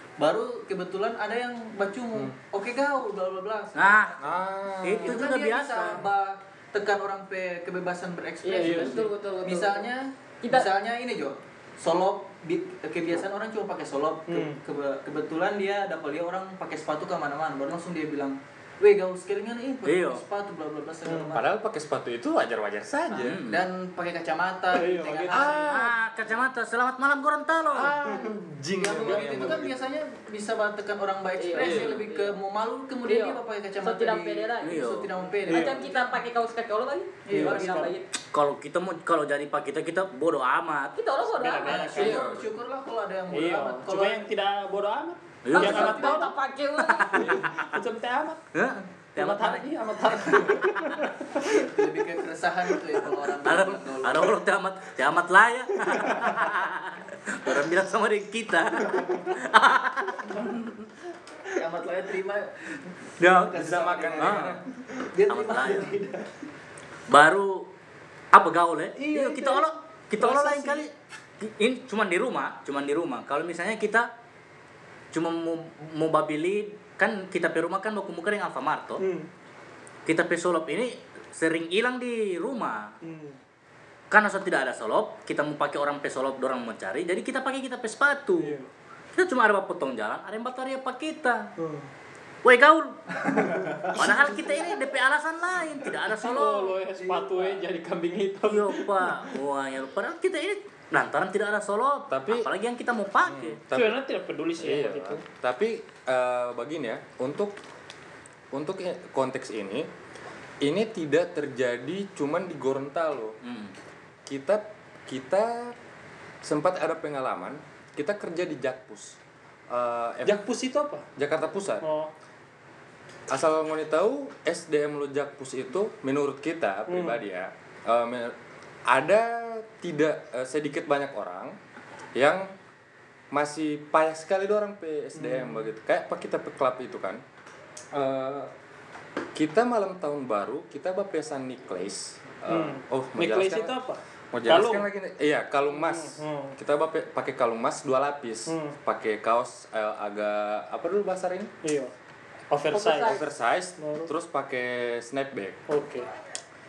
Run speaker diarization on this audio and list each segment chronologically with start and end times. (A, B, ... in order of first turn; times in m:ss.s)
0:00.2-0:04.4 A
0:03.8-0:04.2 B
0:04.2-0:05.3 C
0:04.8-0:06.1 B
0:05.0-0:21.5 A
0:08.4-0:09.9 D
0:08.6-0:09.1 E
0:10.4-0:10.7 D
0:14.3-0:14.6 E
0:19.8-0:20.2 B
0:21.1-0:21.3 E
0:21.3-0:23.4 C
0:23.2-0:23.7 B
0:23.5-0:25.8 A
0:24.7-0:25.7 E
0:25.3-0:25.9 C
0:25.7-0:27.9 B
0:27.7-0:29.7 C
0:28.1-0:28.4 E
0:28.8-0:35.9 A
0:29.1-0:29.6 E
0:31.4-0:32.4 D
0:31.6-0:32.0 C
0:33.0-0:34.9 D
0:34.6-0:35.1 B
0:35.5-0:38.0 D
0:35.5-0:35.8 E
0:37.2-0:38.0 A
0:37.3-0:37.9 E
0:38.3-0:41.0 B
0:41.0-0:42.2 D
0:41.3-0:42.3 E
0:41.6-0:44.3 A
0:42.0-0:42.5 C
0:43.3-0:46.3 E
0:45.4-0:46.2 B
0:45.5-0:47.3 D
0:46.8-0:47.7 B
0:47.1-0:47.5 C
0:47.5-0:48.4 E
0:48.5-0:49.7 B
0:49.2-0:51.7 E
0:51.5-0:54.4 A
0:53.4-1:00.6 B
1:01.6-1:06.3 A
1:03.2-1:03.6 B
1:03.5-1:04.6 C
1:04.2-1:04.5 B
1:05.3-1:06.0 B
1:07.1-1:07.7 B
1:08.3-1:14.1 B
1:09.0-1:10.9 E
1:15.1-1:19.0 B
1:19.0-1:19.3 E
1:20.1-1:22.9 B
1:23.0-1:23.4 E
1:24.1-1:28.6 B
1:28.4-1:28.7 E
1:29.2-1:31.5 B
1:31.6-1:31.9 E
1:32.4-1:33.2 B
1:33.2-1:34.5 A
1:33.9-1:36.8 B
1:36.2-1:39.4 E
1:37.0-1:37.6 A
1:38.4-1:43.6 B
1:42.1-1:42.5 C
1:43.2-1:44.0 C
1:43.7-1:45.2 E
1:44.6-1:47.6 C
1:48.5-1:49.9 C
1:50.6-1:53.4 C
1:53.4-1:53.7 B
1:54.3-1:55.7 C
1:56.4-1:59.2 C
1:59.7-2:00.4 C
2:00.2-2:01.1 E
2:01.2-2:01.9 C
2:01.8-2:02.1 E
2:03.3-2:08.4 C
2:06.9-2:07.2 E
2:08.9-2:11.6 C
2:12.2-2:12.5 C
2:13.3-2:17.2 C
2:15.2-2:15.7 E
2:17.9-2:18.5 C
2:19.4-2:23.8 C
2:22.5-2:24.9 E
2:24.3-2:31.5 C
2:25.7-2:26.6 E
2:28.5-2:28.8 E
2:31.6-2:31.9 E
2:32.5-2:33.3 E
2:32.7-2:33.3 D
2:33.0-2:35.6 C
2:33.8-2:34.1 E
2:35.7-2:36.1 E